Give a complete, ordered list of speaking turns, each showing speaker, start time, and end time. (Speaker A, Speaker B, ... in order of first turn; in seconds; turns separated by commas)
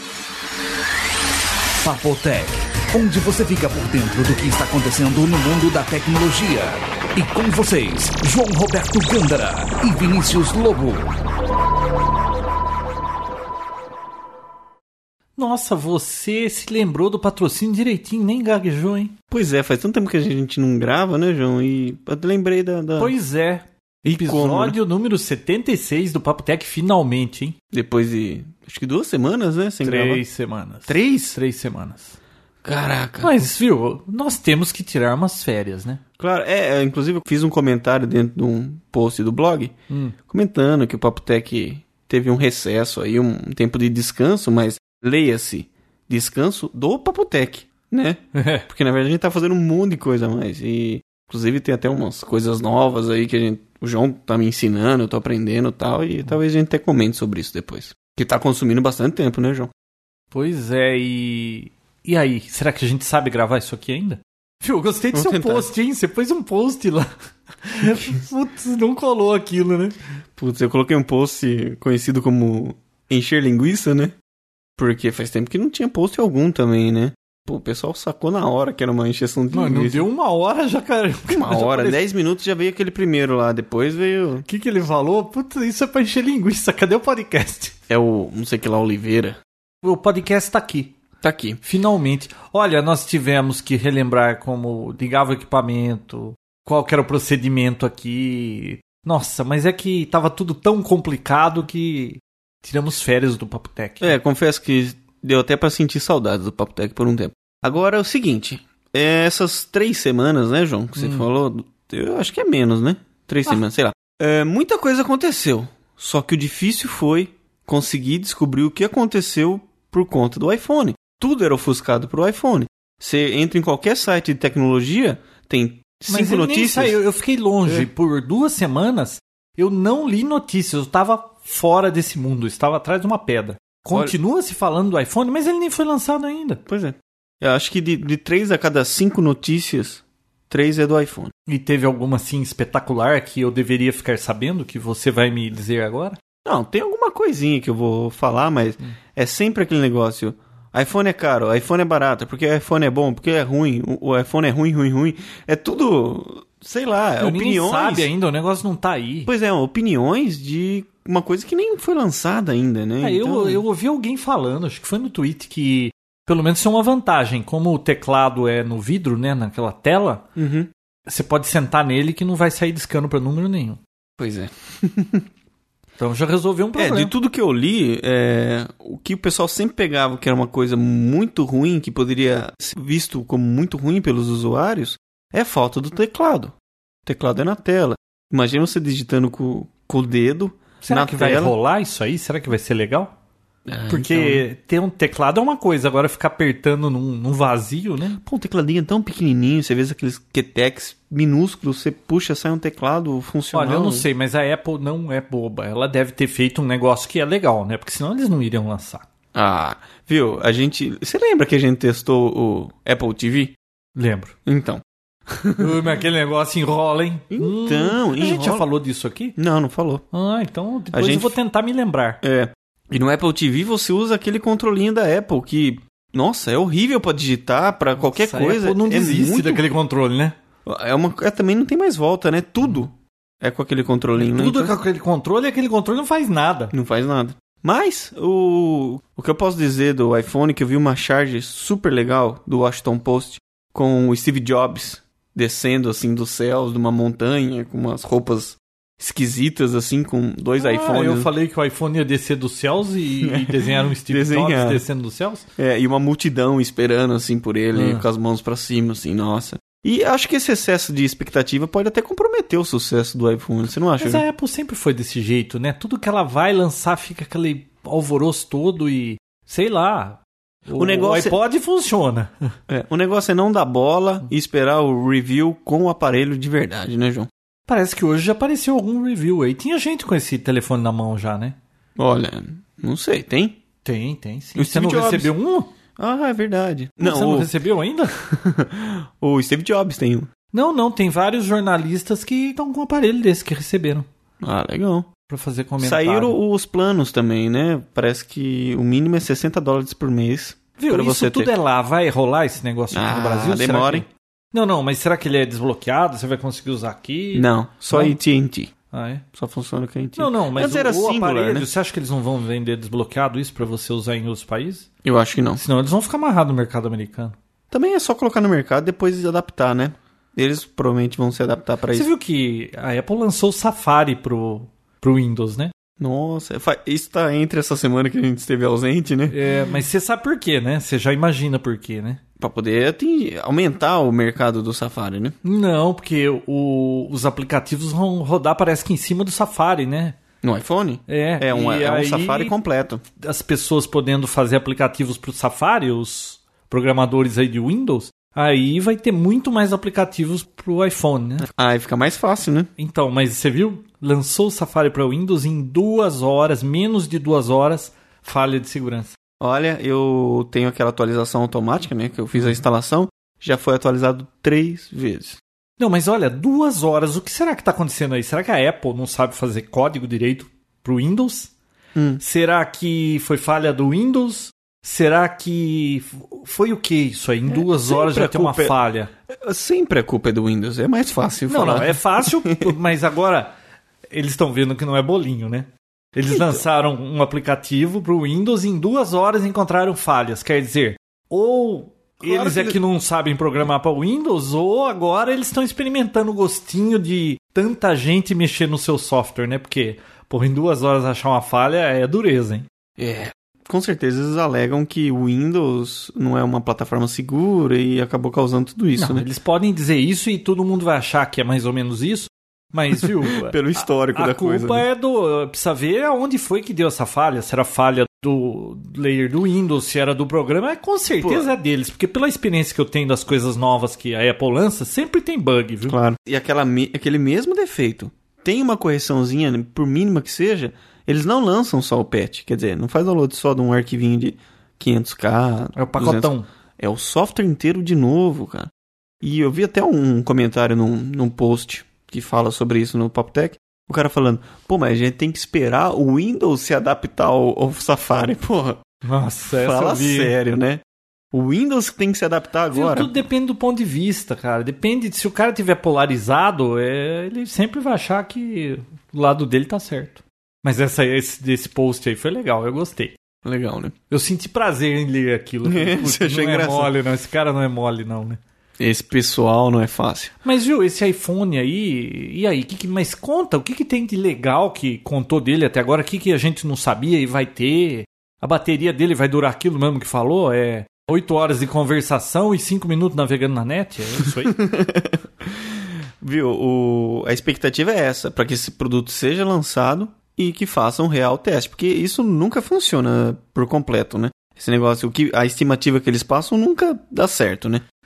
Speaker A: 1.8-11.1, Speaker B: 15.3-19.1, Speaker C: 19.3-23.1, Speaker B: 23.0-27.6, Speaker C: 24.0-24.8, Speaker C: 27.7-30.2, Speaker B: 29.8-32.1, Speaker C: 30.9-31.4, Speaker C: 32.6-33.3, Speaker B: 33.2-36.0, Speaker C: 36.2-39.7, Speaker B: 39.9-40.1, Speaker C: 40.3-59.7, Speaker B: 48.3-48.6, Speaker B: 60.3-69.9, Speaker C: 65.1-65.7, Speaker C: 70.3-74.1, Speaker C: 74.8-80.1, Speaker B: 79.5-82.0, Speaker C: 81.3-84.5, Speaker B: 84.5-87.7, Speaker C: 87.9-89.4, Speaker B: 89.8-91.0, Speaker C: 91.2-91.6, Speaker B: 91.6-104.2, Speaker C: 104.0-127.0, Speaker B: 111.0-111.2, Speaker B: 126.1-136.6, Speaker C: 136.7-141.3, Speaker B: 141.5-146.2, Speaker C: 146.4-158.1, Speaker B: 157.2-159.3, Speaker C: 159.3-163.6, Speaker B: 163.0-170.2, Speaker C: 170.3-170.7, Speaker B: 171.1-173.8, Speaker C: 174.2-175.2, Speaker B: 176.0-177.1, Speaker C: 176.8-186.5, Speaker C: 187.1-191.5, Speaker B: 190.8-193.1, Speaker C: 193.7-194.4, Speaker B: 193.9-198.2, Speaker C: 198.2-204.1, Speaker B: 203.5-209.0, Speaker C: 209.3-213.6, Speaker B: 213.9-214.3, Speaker C: 214.4-215.9, Speaker B: 215.6-219.3, Speaker C: 217.3-218.7, Speaker C: 219.3-220.0, Speaker B: 220.1-222.2, Speaker C: 220.9-221.3, Speaker C: 222.2-229.6, Speaker B: 228.0-230.3, Speaker C: 230.7-234.7, Speaker B: 234.2-236.7, Speaker C: 236.7-251.3, Speaker B: 250.6-255.4, Speaker C: 253.2-254.8, Speaker C: 255.6-264.2, Speaker B: 257.7-258.0, Speaker B: 264.0-272.5, Speaker C: 270.8-271.3, Speaker C: 272.7-277.3, Speaker B: 277.7-281.6, Speaker C: 282.0-283.6, Speaker B: 283.8-285.7, Speaker C: 284.6-285.3, Speaker C: 286.0-287.5, Speaker B: 287.0-288.2, Speaker C: 288.2-290.3, Speaker B: 290.5-294.1, Speaker C: 294.4-295.1, Speaker B: 295.3-296.4, Speaker C: 295.8-301.5, Speaker B: 300.8-308.1, Speaker C: 302.9-304.1, Speaker C: 307.3-308.7, Speaker B: 308.9-309.2, Speaker C: 309.3-311.7, Speaker B: 310.1-314.9, Speaker C: 315.0-315.6, Speaker B: 315.6-317.4, Speaker C: 317.7-322.1, Speaker B: 321.9-325.7, Speaker C: 326.0-329.4, Speaker B: 329.3-332.2, Speaker C: 332.4-335.4, Speaker B: 335.4-340.2, Speaker C: 340.4-343.0, Speaker B: 341.1-342.5, Speaker B: 343.2-351.5, Speaker C: 351.4-352.7, Speaker B: 352.8-359.1, Speaker C: 359.4-365.4, Speaker B: 365.8-371.5, Speaker C: 371.9-372.2, Speaker B: 372.2-379.1, Speaker C: 377.5-378.8, Speaker C: 379.4-382.7, Speaker B: 381.5-383.5, Speaker B: 384.1-402.6, Speaker C: 386.3-386.6, Speaker C: 392.2-392.8, Speaker C: 403.0-409.2, Speaker B: 409.0-426.0, Speaker C: 413.3-414.9, Speaker C: 421.2-421.5, Speaker C: 425.9-438.7, Speaker B: 435.8-436.5, Speaker C: 439.2-448.8, Speaker B: 449.0-450.3, Speaker C: 449.6-450.8, Speaker C: 451.3-453.1, Speaker B: 452.7-463.1, Speaker C: 463.4-463.9, Speaker B: 464.1-468.4, Speaker C: 465.6-466.9, Speaker C: 468.8-470.3, Speaker B: 470.4-484.6, Speaker C: 484.5-497.8